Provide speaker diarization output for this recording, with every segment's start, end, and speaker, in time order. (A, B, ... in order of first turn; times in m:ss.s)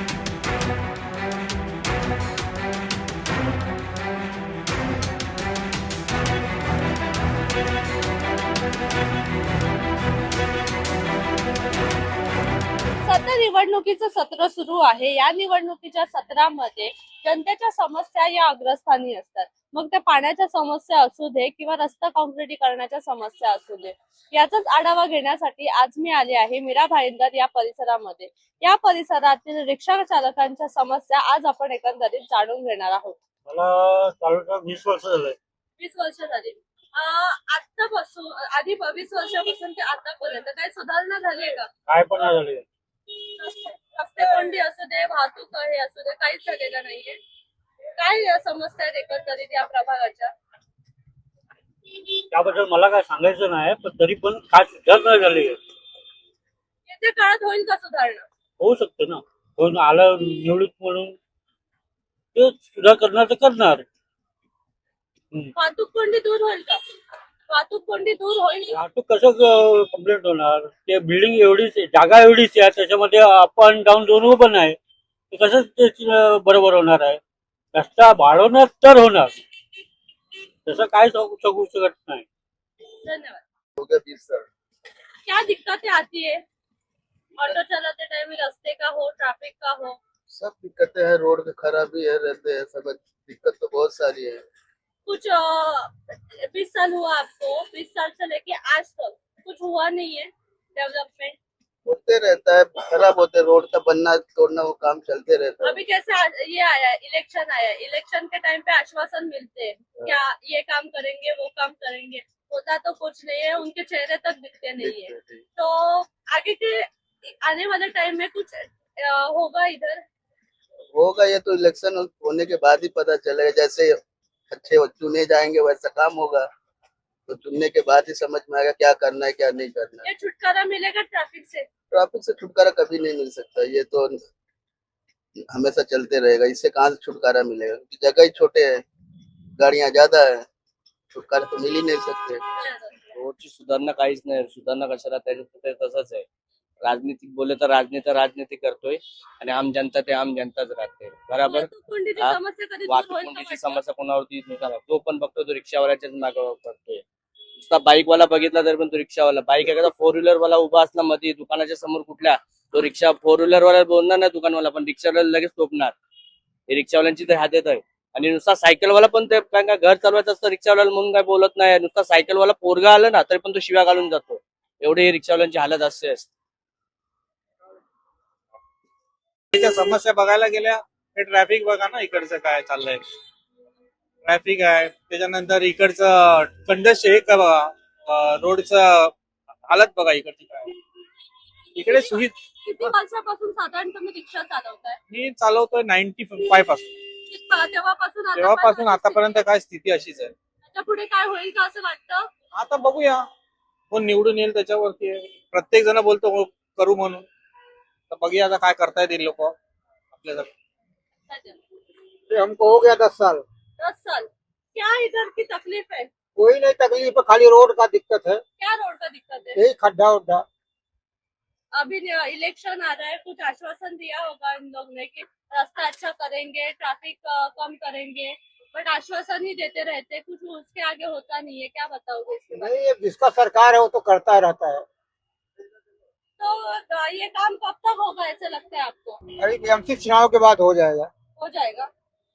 0:13.0-0:33.2 A
0:33.5-0:35.4 B
0:35.8-0:41.7 A
0:41.9-0:42.6 B
0:43.2-0:47.2 A
0:48.0-0:50.3 A
0:52.3-0:55.6 B
0:56.8-0:58.2 A
0:58.6-1:01.1 B
1:02.3-1:03.8 B
1:05.6-1:06.8 A
1:07.5-1:08.8 A
1:08.7-1:14.8 B
1:15.3-1:17.2 B
1:17.7-1:19.3 B
1:20.6-1:22.2 B
1:23.0-1:23.4 A
1:23.8-1:24.4 C
1:25.2-1:26.4 A
1:27.4-1:30.0 A
1:30.3-1:34.4 C
1:35.0-1:41.4 A
1:41.8-1:45.8 C
1:45.6-2:00.0 A
1:54.8-1:55.4 C
2:00.9-2:04.0 C
2:04.5-2:06.4 C
2:07.3-2:10.0 C
2:10.0-2:11.6 A
2:11.9-2:14.2 C
2:15.5-2:18.8 C
2:19.6-2:20.4 C
2:21.1-2:22.4 C
2:22.5-2:23.2 A
2:23.2-2:26.2 D
2:26.8-2:37.0 D
2:31.4-2:33.8 A
2:37.6-2:45.9 D
2:46.7-2:56.3 D
2:59.5-3:03.0 E
3:04.2-3:09.1 E
3:09.7-3:10.7 E
3:11.8-3:12.3 E
3:11.8-3:15.0 A
3:15.1-3:16.8 E
3:17.3-3:19.3 A
3:18.4-3:20.3 E
3:20.7-3:22.3 A
3:22.5-3:23.2 E
3:23.9-3:27.3 E
3:28.1-3:29.5 E
3:30.1-3:30.5 E
3:31.3-3:31.6 A
3:32.3-3:33.4 F
3:33.8-3:36.1 A
3:36.4-3:38.4 F
3:38.6-3:39.6 A
3:39.6-3:40.4 F
3:41.7-3:52.7 A
3:52.5-3:54.8 F
3:56.4-3:59.2 A
3:59.4-4:01.1 F
4:01.4-4:01.9 A